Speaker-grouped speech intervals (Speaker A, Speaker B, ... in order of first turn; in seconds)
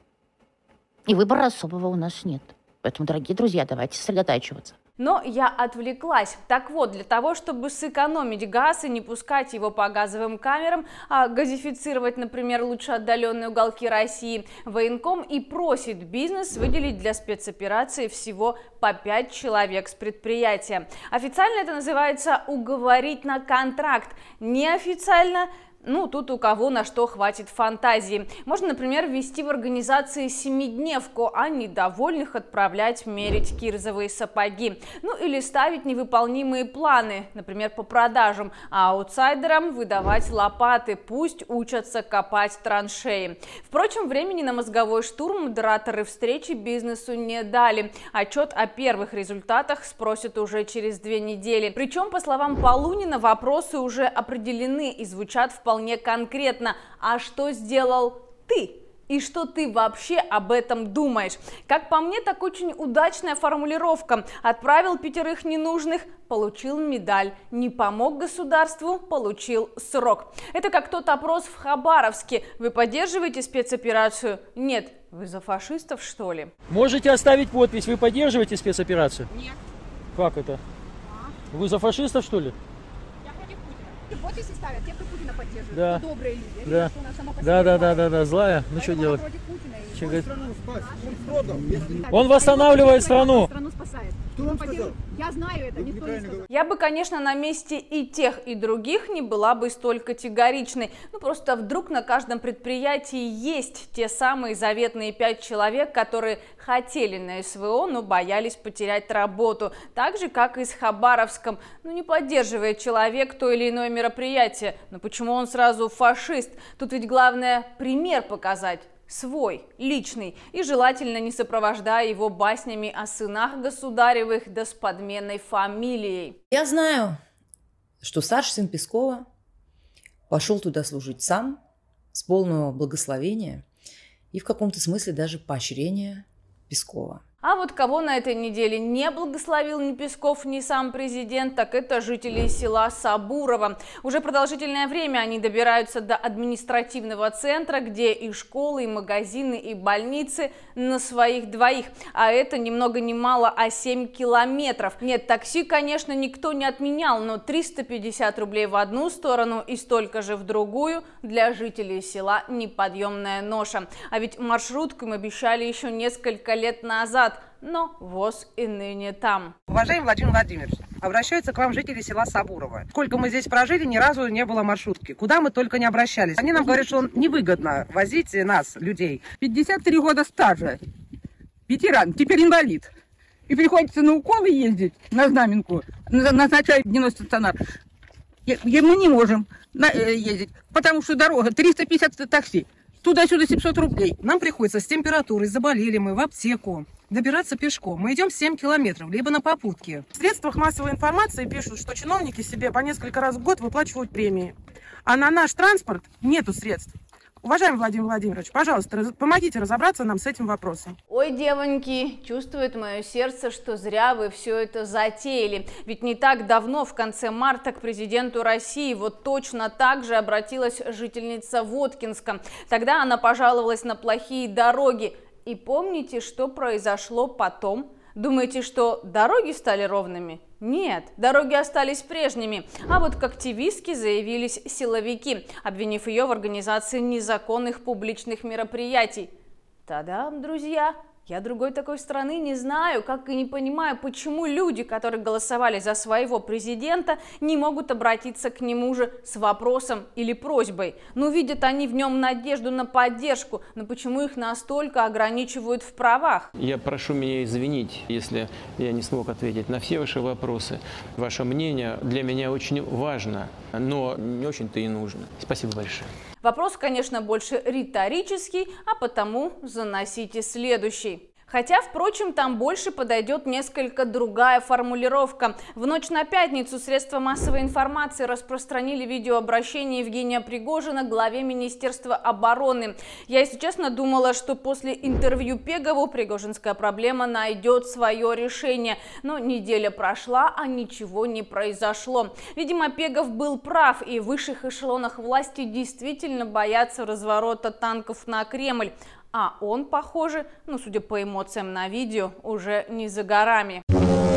Speaker A: 1.1-4.7
Speaker B: 5.0-76.5, 96.5-126.4, 137.4-169.5, 211.1-239.3, 239.8-256.5, 266.4-303.8
Speaker C: 76.7-79.3, 80.1-80.6, 81.5-82.5, 85.7-86.0, 86.6-89.2, 89.9-90.3, 92.1-93.5
Speaker D: 83.3-88.0, 88.8-96.4
Speaker E: 126.5-127.2, 128.0-129.2, 130.3-131.6, 132.1-133.6, 134.3-137.2
Speaker F: 169.7-179.3, 194.2-204.5, 205.1-210.9
Speaker G: 179.3-180.8, 181.7-182.9, 183.5-187.5, 188.5-194.1
Speaker H: 256.6-266.1